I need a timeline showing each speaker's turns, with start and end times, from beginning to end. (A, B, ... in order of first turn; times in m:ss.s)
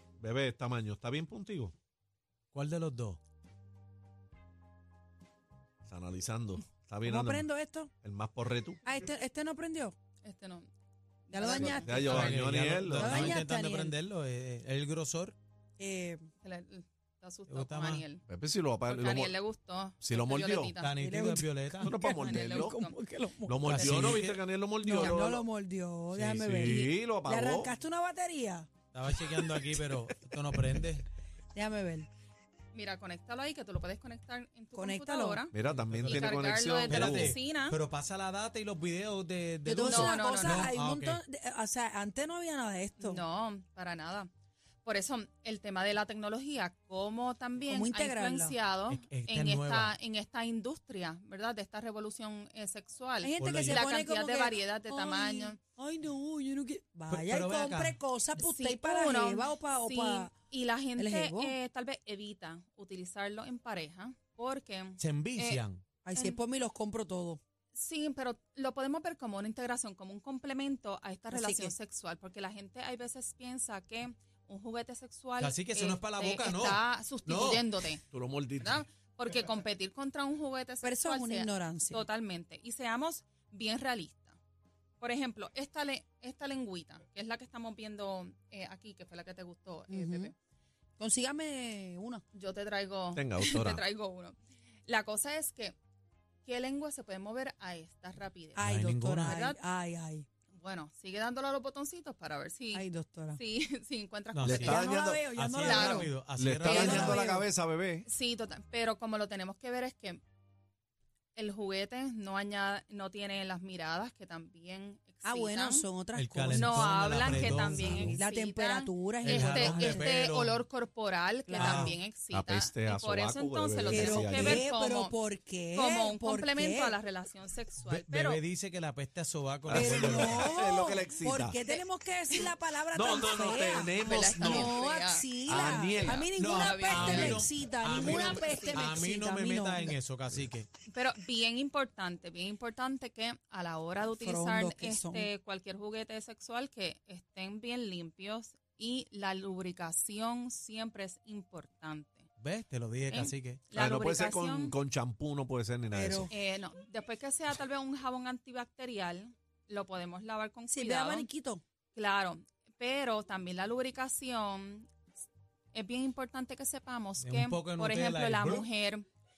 0:00.2-0:01.7 A
0:02.5-0:03.2 B
0:05.9-0:07.5 A
0:07.0-0:07.9 C
0:08.0-0:08.8 A
0:08.8-0:10.0 C
0:10.2-0:10.7 D
0:11.3-0:12.4 D
0:11.3-0:12.3 C
0:11.5-0:13.4 A
0:11.9-0:15.4 B
0:12.9-0:14.0 C
0:15.8-0:16.2 C
0:16.4-0:18.2 D
0:17.5-0:18.0 B
0:18.3-0:19.4 A
0:18.8-0:21.0 D
0:20.0-0:20.7 A
0:20.8-0:21.9 B
0:21.0-0:23.7 C
0:21.8-0:22.7 A
0:22.1-0:23.0 D
0:23.5-0:25.5 A
0:23.7-0:24.4 B
0:23.7-0:24.0 D
0:24.8-0:28.7 C
0:26.1-0:27.7 A
0:28.9-0:31.1 B
0:29.4-0:29.9 A
0:31.5-0:32.1 C
0:32.7-0:35.5 D
0:34.8-0:35.4 C
0:35.5-0:37.4 A
0:35.7-0:36.3 B
0:36.0-0:37.8 D
0:36.9-0:41.2 B
0:39.6-0:43.2 C
0:39.8-0:40.7 D
0:43.0-0:44.3 D
0:44.8-0:55.6 D
0:47.7-0:48.6 C
0:48.9-0:50.0 B
0:53.2-1:00.3 C
0:53.4-0:53.9 B
0:57.1-0:58.0 B
0:58.4-1:05.6 D
1:01.0-1:01.6 C
1:05.0-1:05.8 B
1:06.0-1:07.4 C
1:06.1-1:06.4 D
1:07.7-1:18.0 D
1:11.3-1:11.8 C
1:15.4-1:17.7 B
1:18.1-1:18.8 A
1:18.6-1:24.4 D
1:20.8-1:22.1 C
1:25.0-1:30.3 D
1:29.9-1:30.3 C
1:31.0-1:32.2 C
1:32.3-1:35.8 D
1:33.2-1:33.8 A
1:36.4-1:39.6 D
1:38.6-1:39.4 B
1:38.6-1:40.3 C
1:40.6-1:44.9 D
1:42.7-1:43.4 C
1:44.3-1:47.3 B
1:44.4-1:45.2 A
1:44.7-1:46.1 C
1:45.6-1:46.1 D
1:46.4-1:48.1 A
1:46.7-1:47.5 C
1:46.7-1:47.3 D
1:48.1-1:50.2 D
1:51.4-1:55.9 D
1:55.2-2:00.1 C
1:56.1-1:58.2 B
1:56.5-2:05.2 D
1:59.2-2:00.6 B
2:01.5-2:02.0 C
2:01.6-2:02.0 B
2:02.3-2:04.6 A
2:03.9-2:07.0 C
2:05.7-2:08.4 D
2:07.9-2:10.5 B
2:09.7-2:11.6 A
2:09.7-2:20.0 C
2:11.7-2:12.5 D
2:12.9-2:14.7 A
2:13.6-2:18.9 D
2:15.5-2:16.3 A
2:16.3-2:20.7 B
2:20.9-2:32.3 D
2:24.2-2:25.3 C
2:32.4-2:33.6 B
2:33.1-2:34.8 D
2:33.7-2:36.3 A
2:35.9-2:36.3 C
2:36.3-2:41.3 D
2:40.7-2:41.6 C
2:41.9-2:44.9 D
2:45.7-2:49.0 D
2:47.2-2:48.7 B